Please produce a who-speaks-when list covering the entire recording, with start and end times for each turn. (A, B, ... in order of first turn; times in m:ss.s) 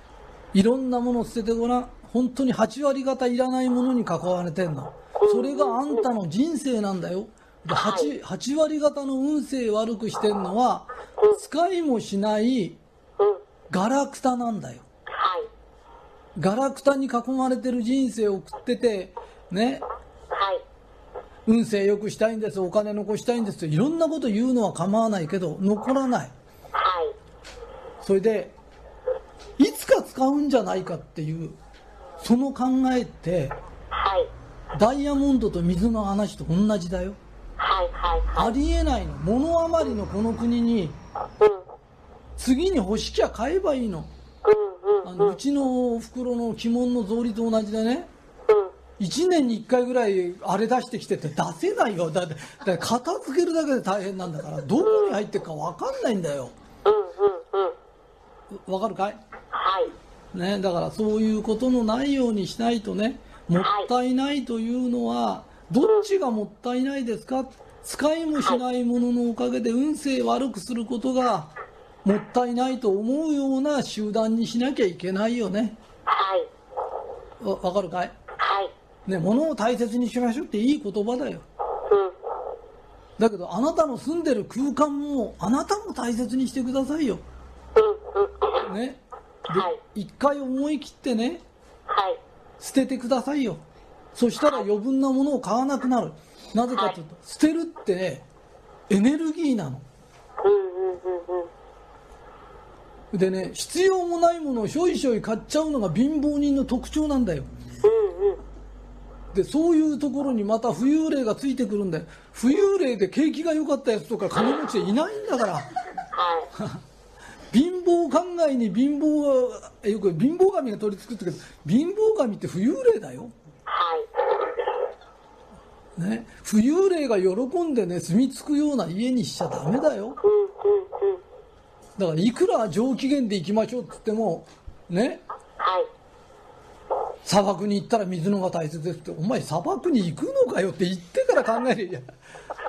0:00.5-0:12.8 A
0:05.2-0:05.6 B
0:07.8-0:08.1 B
0:13.7-0:14.8 A
0:15.2-0:15.5 B
0:16.4-0:19.8 A
0:20.3-0:20.6 B
0:21.4-0:26.3 A
0:26.8-0:27.1 B
0:28.0-0:28.6 A
0:29.6-0:31.6 A
0:32.2-0:33.6 A
0:33.9-0:34.3 B
0:34.7-0:37.2 A
0:37.6-0:38.5 B
0:38.4-0:41.0 A
0:42.4-0:44.1 A
0:44.4-0:45.3 B
0:45.0-0:48.1 A
0:49.0-0:56.5 A
0:56.8-0:57.8 B
0:58.6-0:59.2 A
0:59.5-0:59.9 B
1:00.3-1:11.5 A
1:12.0-1:15.8 A
1:16.1-1:16.5 B
1:17.4-1:18.1 A
1:18.4-1:18.7 B
1:19.1-1:21.4 A
1:21.9-1:22.1 B
1:23.2-1:27.2 A
1:27.8-1:28.6 B
1:28.6-1:31.4 A
1:31.9-1:32.2 B
1:32.6-1:33.6 A
1:34.1-1:38.2 A
1:38.9-1:39.8 A
1:40.4-1:41.5 B
1:43.1-1:47.5 A
1:47.8-1:48.4 B
1:49.3-1:55.7 A
1:56.2-1:56.5 B
1:57.5-2:03.3 A
2:03.7-2:04.1 B
2:06.0-2:10.2 A
2:10.2-2:11.2 B
2:12.0-2:15.2 A
2:15.6-2:15.9 B
2:17.2-2:22.0 A